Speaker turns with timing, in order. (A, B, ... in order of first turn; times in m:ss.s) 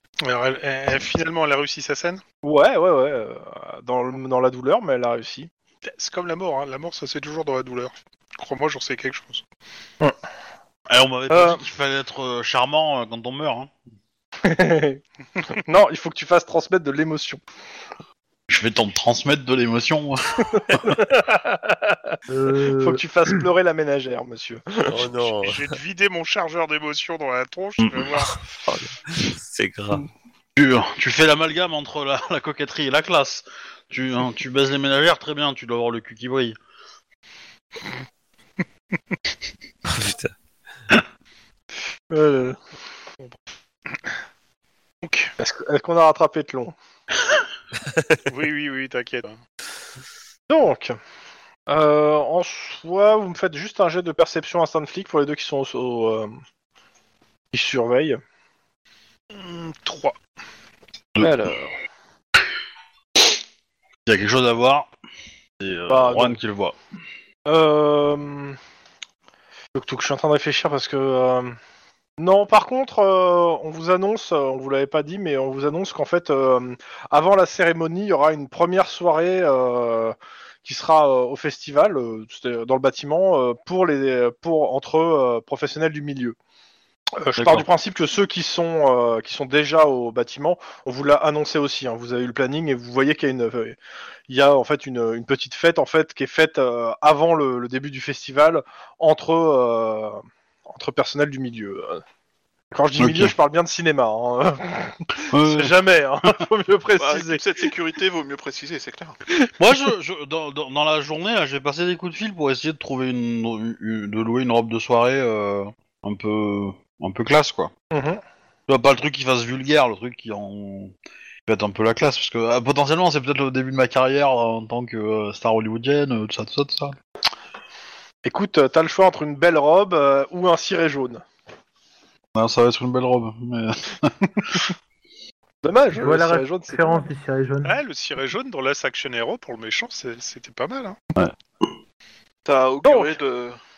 0:00.2-0:02.2 A
0:02.4-0:05.5 B
0:05.8-0:09.4 A
0:10.9-0:13.7 C
0:11.3-0:11.6 B
0:14.4-0:15.0 B
0:15.5-0:17.4 B
0:18.5-0:20.9 C
0:20.5-0:25.1 B
0:22.3-0:23.4 D
0:24.9-0:25.7 E
0:25.3-0:28.3 A
0:28.6-0:30.1 E
0:30.6-0:36.6 C
0:39.9-0:40.3 E
0:42.1-0:42.6 B
0:45.0-0:45.3 A
0:45.4-0:46.8 B
0:48.3-0:49.4 A
0:50.5-0:51.0 B
0:51.7-0:56.3 B
0:57.5-0:58.2 B
0:59.3-1:00.2 A
1:01.2-1:01.7 B
1:04.1-1:04.9 C
1:05.6-1:06.8 C
1:05.9-1:06.4 B
1:07.5-1:08.6 B
1:09.7-1:11.6 B
1:12.2-1:26.4 B
1:27.2-1:33.8 B
1:27.4-1:27.7 C
1:34.3-1:42.0 B
1:42.7-1:47.4 B
1:43.0-1:43.4 C
1:45.3-1:45.8 C
1:47.0-1:49.2 F
1:49.6-1:57.7 C
1:57.9-1:58.2 B
1:58.7-2:00.9 C
2:01.5-2:07.0 C
2:08.2-2:11.2 B
2:12.4-2:14.7 C
2:15.6-2:17.1 B
2:15.9-2:17.8 D
2:17.6-2:21.0 A
2:21.2-2:21.7 C
2:22.5-2:23.6 F
2:22.8-2:23.2 B